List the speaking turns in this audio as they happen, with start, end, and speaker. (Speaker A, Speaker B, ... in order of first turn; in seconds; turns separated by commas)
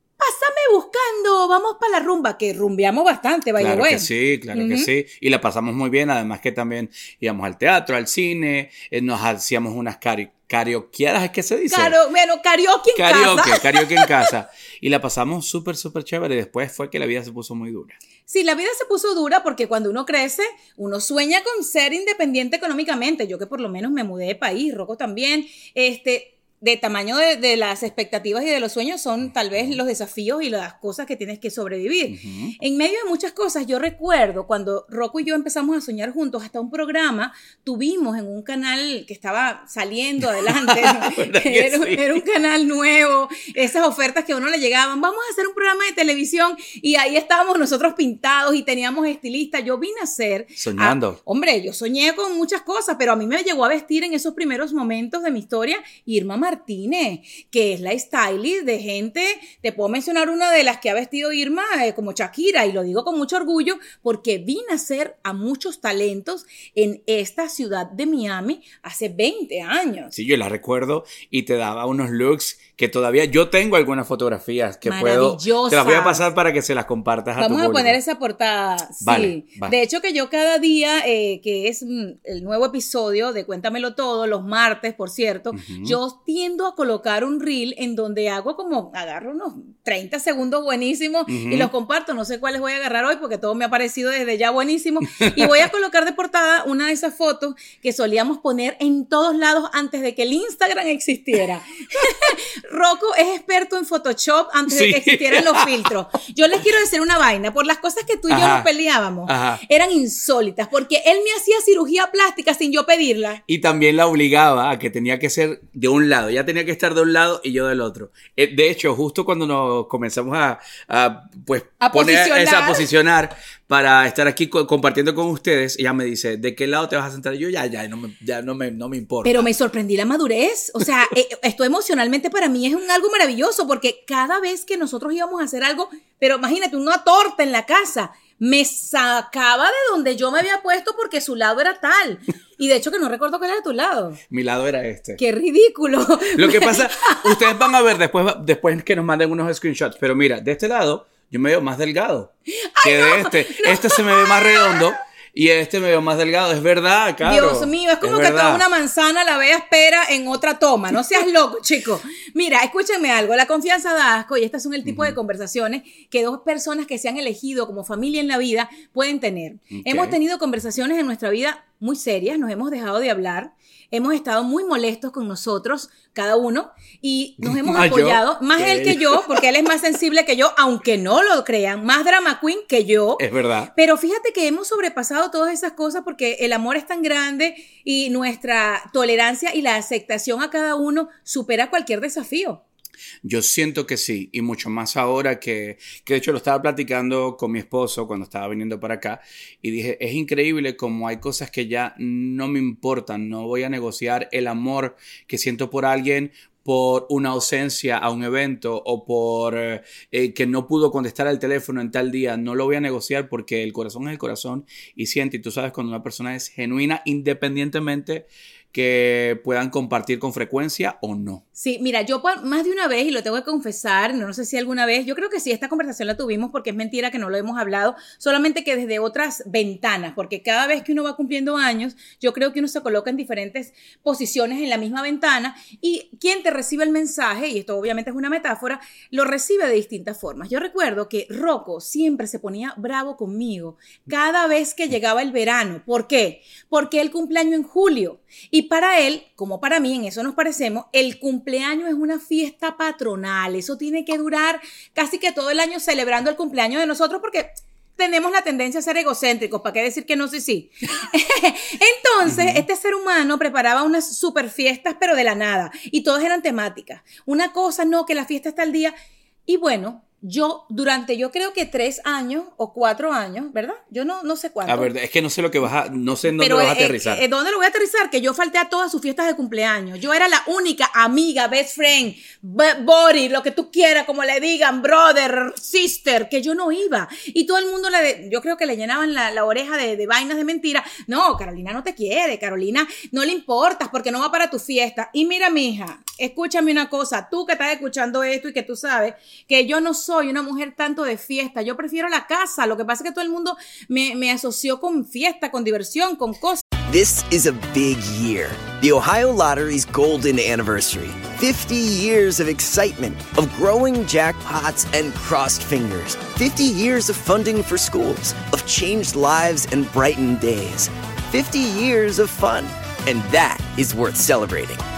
Speaker A: 0.2-4.9, Speaker B: 3.6-12.0, Speaker A: 11.7-14.3, Speaker B: 12.9-18.0, Speaker A: 18.3-70.2, Speaker B: 29.5-29.8, Speaker B: 32.1-32.5, Speaker B: 40.3-42.2, Speaker B: 50.6-51.2, Speaker B: 70.1-78.0, Speaker A: 74.8-76.2, Speaker A: 77.4-113.4, Speaker B: 79.0-79.8, Speaker B: 85.5-86.0, Speaker B: 91.3-91.7, Speaker B: 95.1-95.6, Speaker B: 104.7-105.9, Speaker B: 108.3-108.7, Speaker B: 109.3-109.6, Speaker B: 113.5-129.5, Speaker A: 121.8-122.9, Speaker A: 129.2-144.2, Speaker B: 144.3-145.2, Speaker A: 145.2-147.4, Speaker B: 146.3-158.7, Speaker A: 152.5-154.9, Speaker A: 157.2-183.2, Speaker B: 164.9-165.2, Speaker B: 169.7-170.2, Speaker B: 177.4-179.4, Speaker B: 183.2-183.7, Speaker A: 183.8-192.6, Speaker B: 193.2-221.4, Speaker A: 221.6-268.9, Speaker B: 262.2-262.6, Speaker A: 269.5-274.9, Speaker B: 274.7-277.2, Speaker A: 276.3-306.6, Speaker C: 306.9-324.8